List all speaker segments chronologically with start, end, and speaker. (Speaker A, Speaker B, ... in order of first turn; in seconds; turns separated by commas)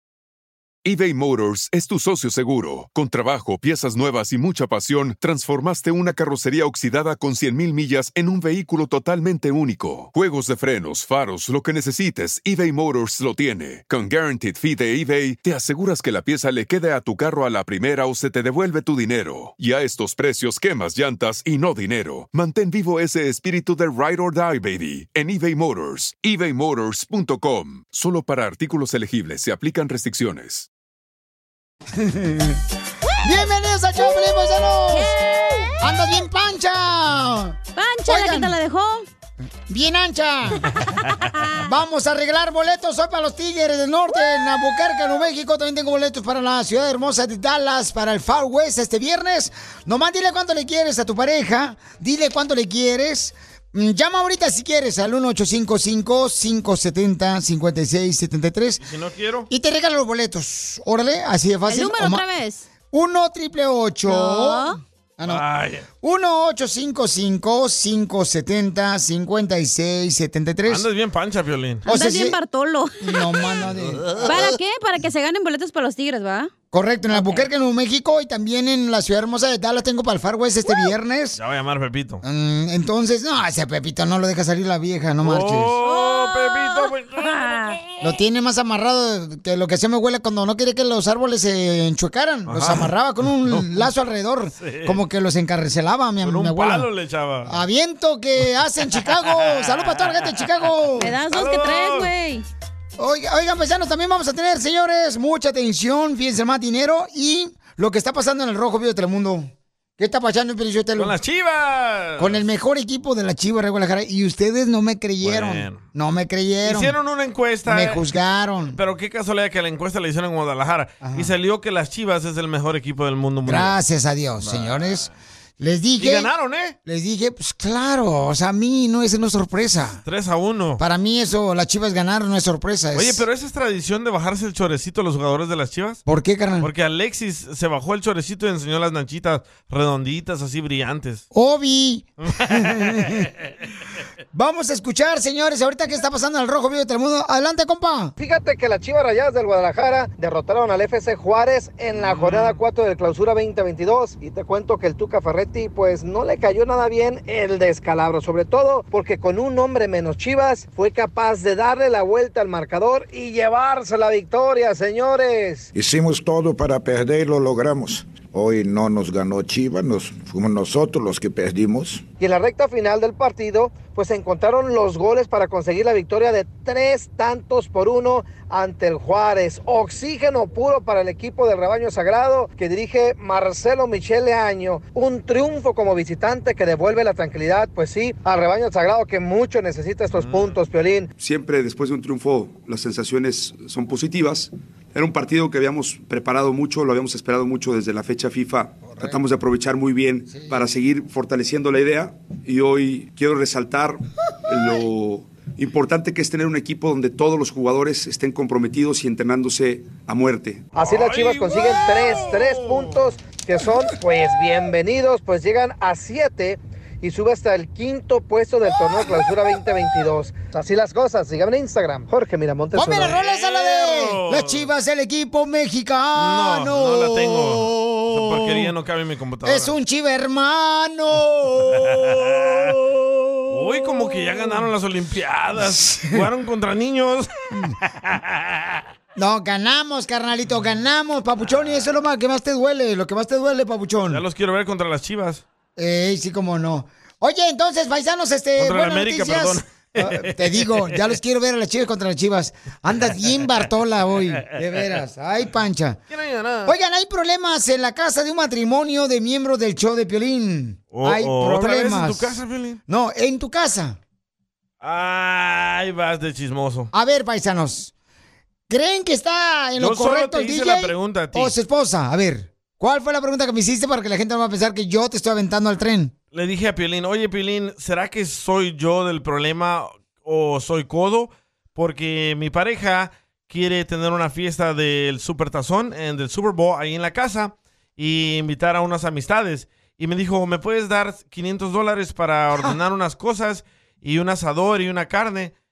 Speaker A: 0.8-30.7, Speaker B: 31.9-32.6, Speaker B: 33.2-35.1, Speaker C: 34.9-35.8, Speaker B: 35.8-38.5, Speaker C: 37.8-39.0, Speaker B: 39.7-40.7, Speaker B: 41.6-58.8, Speaker D: 58.8-59.5, Speaker B: 59.5-62.2, Speaker C: 61.7-62.6, Speaker B: 62.9-65.4, Speaker C: 64.1-64.8, Speaker D: 65.2-65.9, Speaker B: 66.0-70.8, Speaker D: 70.7-71.8, Speaker B: 71.8-72.4, Speaker C: 71.9-73.6, Speaker B: 73.0-74.6, Speaker C: 74.2-76.5, Speaker B: 76.7-81.4, Speaker C: 77.1-77.5, Speaker D: 81.3-82.2, Speaker B: 82.2-85.7, Speaker D: 85.2-87.8, Speaker C: 85.8-87.8, Speaker B: 88.0-96.9, Speaker D: 92.5-92.9, Speaker D: 93.4-93.9, Speaker D: 94.6-95.0, Speaker D: 96.2-97.5, Speaker B: 97.5-101.1, Speaker D: 99.1-100.7, Speaker C: 101.0-102.4, Speaker D: 101.3-102.1, Speaker B: 103.0-111.1, Speaker D: 111.0-112.4, Speaker B: 112.2-116.9, Speaker D: 115.2-115.8, Speaker D: 116.6-118.0, Speaker B: 117.7-118.8, Speaker D: 118.7-123.8, Speaker B: 121.0-121.3, Speaker B: 123.5-125.1, Speaker D: 124.4-125.1, Speaker B: 125.6-126.3, Speaker D: 126.0-126.7, Speaker B: 126.8-130.0, Speaker D: 130.0-130.8, Speaker B: 130.8-133.2, Speaker D: 132.9-136.0, Speaker B: 136.1-136.7, Speaker D: 136.6-141.2, Speaker B: 141.3-143.3, Speaker D: 142.2-143.3, Speaker B: 144.3-148.1, Speaker E: 148.2-165.7, Speaker D: 152.0-152.6, Speaker F: 165.7-172.0, Speaker E: 172.2-191.1, Speaker D: 190.2-190.6, Speaker G: 191.2-210.7, Speaker B: 198.9-199.2, Speaker B: 200.3-200.6, Speaker D: 210.7-213.0, Speaker E: 210.8-223.2, Speaker B: 222.7-228.7, Speaker D: 223.0-224.7, Speaker D: 226.2-229.7, Speaker B: 229.4-234.6, Speaker D: 231.7-232.7, Speaker D: 233.5-238.8, Speaker B: 235.6-236.2, Speaker B: 239.2-244.2, Speaker D: 244.1-245.4, Speaker B: 245.8-256.0, Speaker D: 248.6-251.2, Speaker D: 256.1-256.7, Speaker B: 256.6-264.0, Speaker D: 260.9-262.8, Speaker D: 264.8-266.9, Speaker B: 266.9-267.9, Speaker B: 268.7-276.1, Speaker D: 269.8-271.5, Speaker D: 276.3-295.5